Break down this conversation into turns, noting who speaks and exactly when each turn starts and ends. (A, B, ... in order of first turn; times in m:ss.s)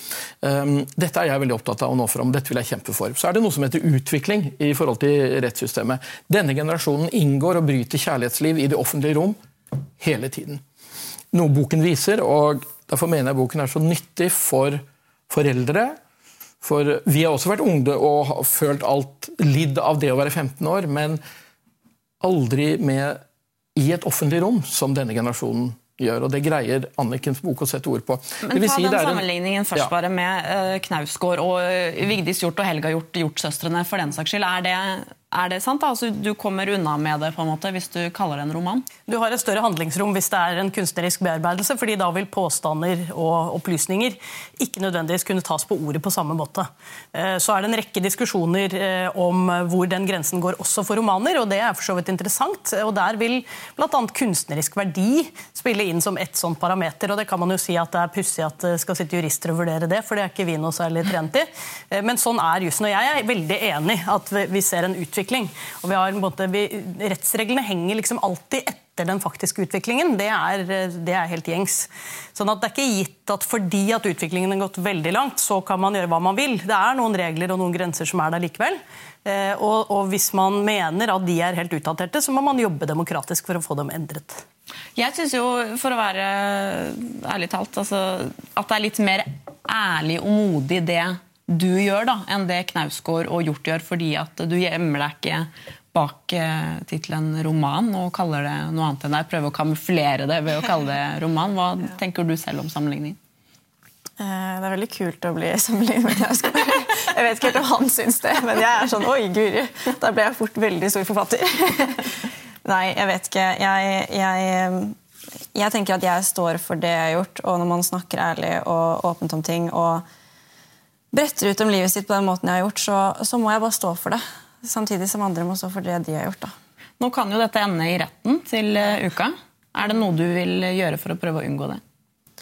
0:00.4-0:09.4 A
0:10.0-0:10.6 A
0:11.3-0:16.0 A
0:16.6-0:21.2 A
0:22.2-0:23.2 A
0:23.8-0:29.9 A
0:28.4-0:38.8 B
0:39.1-1:24.4 C
1:25.0-1:43.2 B
1:44.2-1:55.0 D
1:55.5-2:00.0 D
2:01.1-2:06.5 D
2:07.0-2:11.8 B